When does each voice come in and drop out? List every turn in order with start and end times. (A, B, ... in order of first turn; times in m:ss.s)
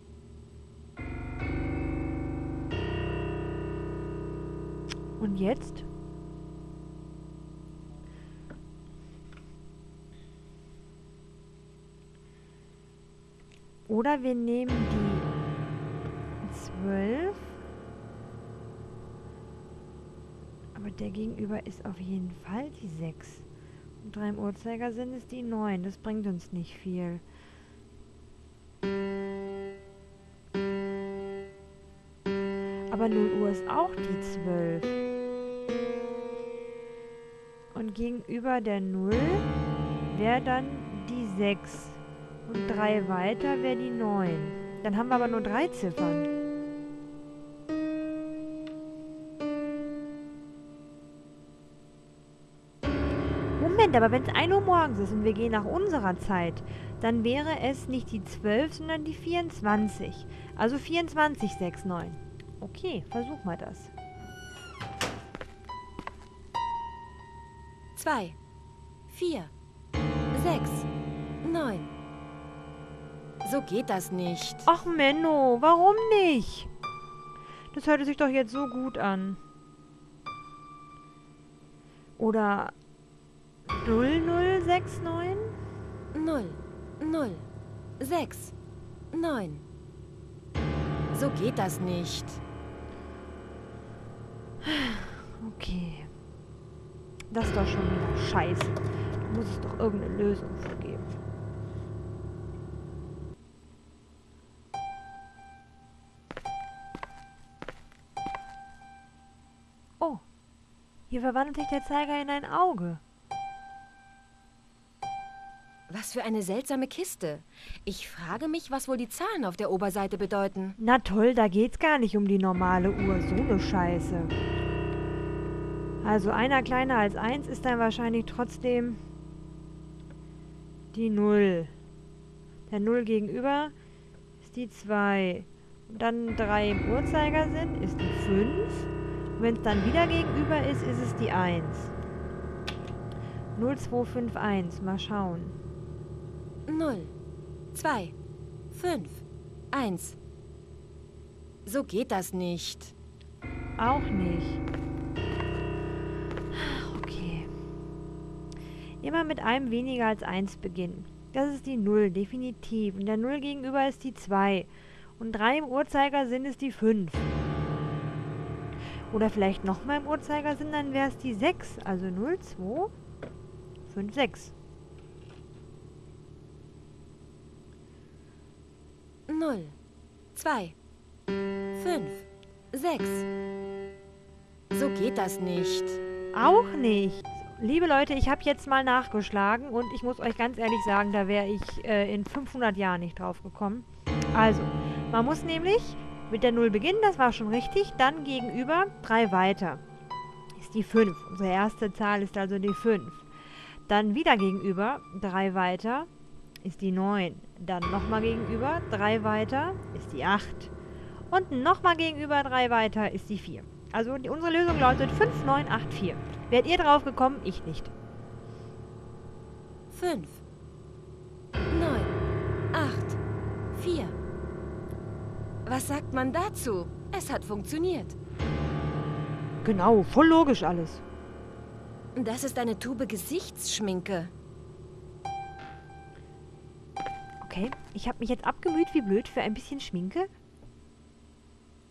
0:05.2-0:05.9 A
0:13.9-0:15.3 A
0:16.4-0:17.6 A
0:20.7-0:23.4 A
0:24.0-0:27.2 A
0:32.9-0:35.0 A
0:37.7-0:39.4 A
0:40.1-0:46.3 A
0:53.6-1:03.9 A
1:08.0-1:08.4 B
1:09.1-1:09.5 B
1:10.3-1:10.9 B
1:11.4-1:11.9 B
1:13.4-1:14.7 B
1:14.6-1:16.7 A
1:17.7-1:19.4 A
1:22.2-1:22.7 A
1:23.7-1:25.5 A
1:26.1-1:27.4 B
1:28.0-1:28.5 B
1:29.1-1:29.6 B
1:31.1-1:32.4 B
1:34.6-1:36.1 A
1:37.3-1:41.1 A
1:51.1-1:53.0 A
1:55.9-2:00.8 B
2:00.8-2:04.3 A
2:06.0-2:09.0 A
2:10.9-2:11.7 A
2:12.7-2:13.7 A
2:14.4-2:21.9 A
2:23.5-2:25.5 A
2:26.7-2:27.1 B
2:27.7-2:28.1 B
2:28.7-2:30.2 B
2:31.6-2:32.9 B
2:33.8-2:34.6 A
2:36.5-2:37.5 A
2:39.0-2:44.7 A
2:45.2-2:47.2 A
2:49.1-2:52.9 A
2:53.9-2:54.5 A
2:59.3-2:59.8 B
3:00.4-3:00.7 B
3:01.8-3:03.2 B
3:04.7-3:06.0 B
3:06.3-3:19.8 A
3:20.6-3:23.2 A
3:23.9-3:26.1 A
3:26.6-3:30.7 A
3:31.3-3:37.9 A
3:39.9-3:40.4 B
3:41.7-3:42.1 B
3:42.7-3:43.2 B
3:43.7-3:44.2 B
3:45.6-3:48.2 B
3:49.6-3:51.0 A
3:52.2-3:54.3 B
3:57.4-4:00.3 A